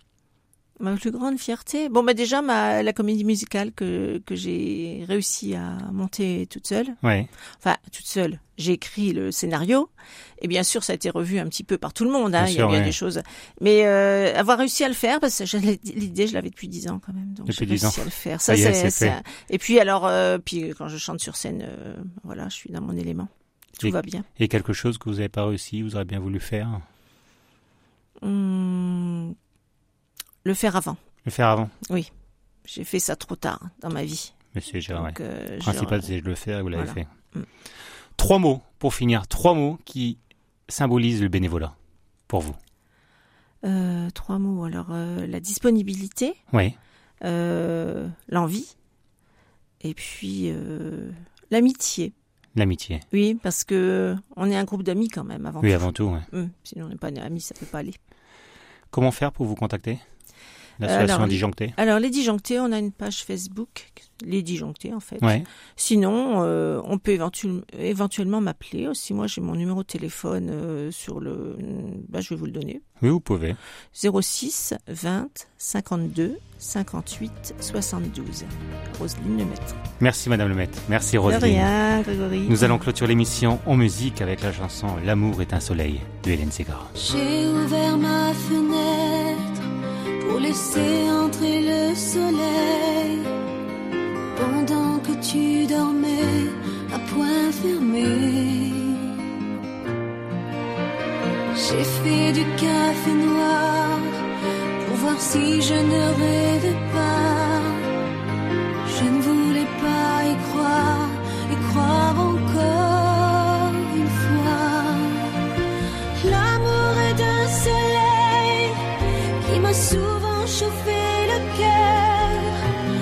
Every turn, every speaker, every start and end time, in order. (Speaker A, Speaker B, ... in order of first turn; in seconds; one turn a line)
Speaker A: 0.8-7.0
Speaker B: 7.0-7.3
Speaker A: 7.6-24.3
Speaker B: 12.4-13.0
Speaker B: 17.5-19.2
Speaker B: 23.8-26.8
Speaker A: 28.2-29.4
Speaker A: 30.4-31.0
Speaker B: 31.2-31.7
Speaker A: 32.7-34.3
Speaker B: 34.5-37.1
Speaker A: 34.9-36.1
Speaker A: 36.7-37.5
Speaker B: 38.2-41.7
Speaker B: 42.3-42.6
Speaker A: 43.6-46.4
Speaker B: 46.5-46.8
Speaker A: 47.2-48.7
Speaker A: 49.8-52.1
Speaker B: 52.5-53.0
Speaker A: 53.1-58.0
Speaker B: 55.6-56.3
Speaker B: 58.9-60.0
Speaker B: 60.8-61.8
Speaker A: 60.8-72.8
Speaker B: 65.2-65.5
Speaker B: 73.0-73.6
Speaker A: 73.9-79.8
Speaker B: 80.0-81.7
Speaker A: 81.2-82.7
Speaker B: 82.5-86.9
Speaker C: 87.0-89.7
Speaker C: 90.2-93.3
Speaker C: 94.3-99.3
Speaker C: 101.5-108.0
Speaker C: 108.8-115.6
Speaker C: 116.2-122.8